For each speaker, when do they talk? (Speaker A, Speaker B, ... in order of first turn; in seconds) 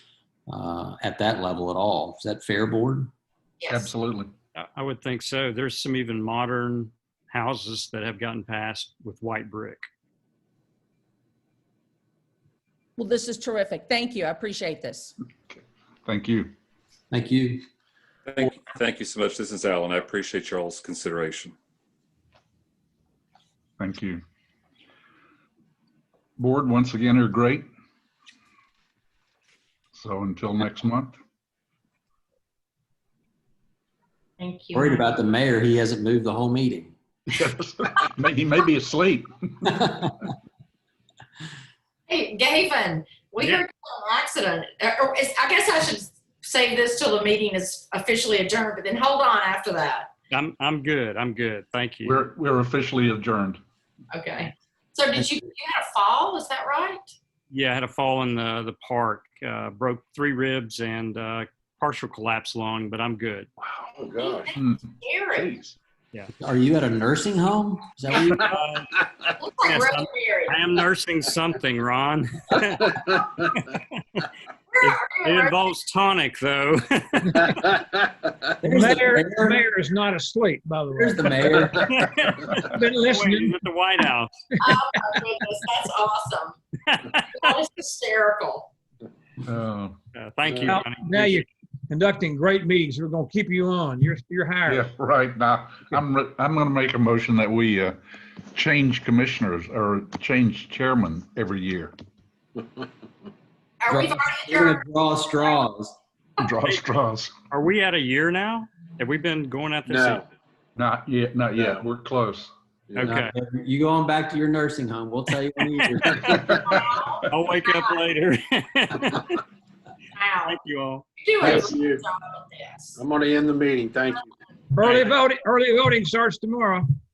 Speaker A: 0.5-3.1, 17.1-17.6, 34.7-36.9, 39.8-40.1, 66.4-68.6, 78.6-79.7, 80.9-82.0, 103.9-106.0, 113.0-116.6
Speaker B: 3.6-3.9, 34.4-35.0, 42.1-50.1, 54.1-57.1, 64.2-65.5, 69.4-70.6, 74.7-75.6, 84.6-86.6, 87.3-88.7, 103.8-104.8, 116.7-118.0, 120.2-120.6, 121.2-123.0
Speaker C: 3.7-4.3, 15.5-16.5, 23.8-24.2, 26.4-27.7, 29.9-31.2, 37.3-40.0, 52.0-53.6, 65.4-65.8, 89.4-90.0, 94.7-101.9, 106.4-107.3, 110.8-112.5
Speaker D: 4.5-9.8, 50.3-52.2, 57.5-63.5, 68.3-69.1, 69.6-74.3, 74.8-77.8, 81.8-84.3, 86.9-87.5, 90.1-91.4, 107.5-110.2, 113.0-113.3, 117.3-119.4, 120.4-121.1, 124.8-125.1
Speaker E: 13.0-15.1
Speaker F: 18.3-21.6
Speaker G: 64.0-64.5, 109.9-110.2, 111.6-111.8, 112.9-113.2, 121.4-122.0, 123.0-124.3
Speaker H: 78.6-81.7, 82.6-83.6, 90.7-94.9, 124.7-126.9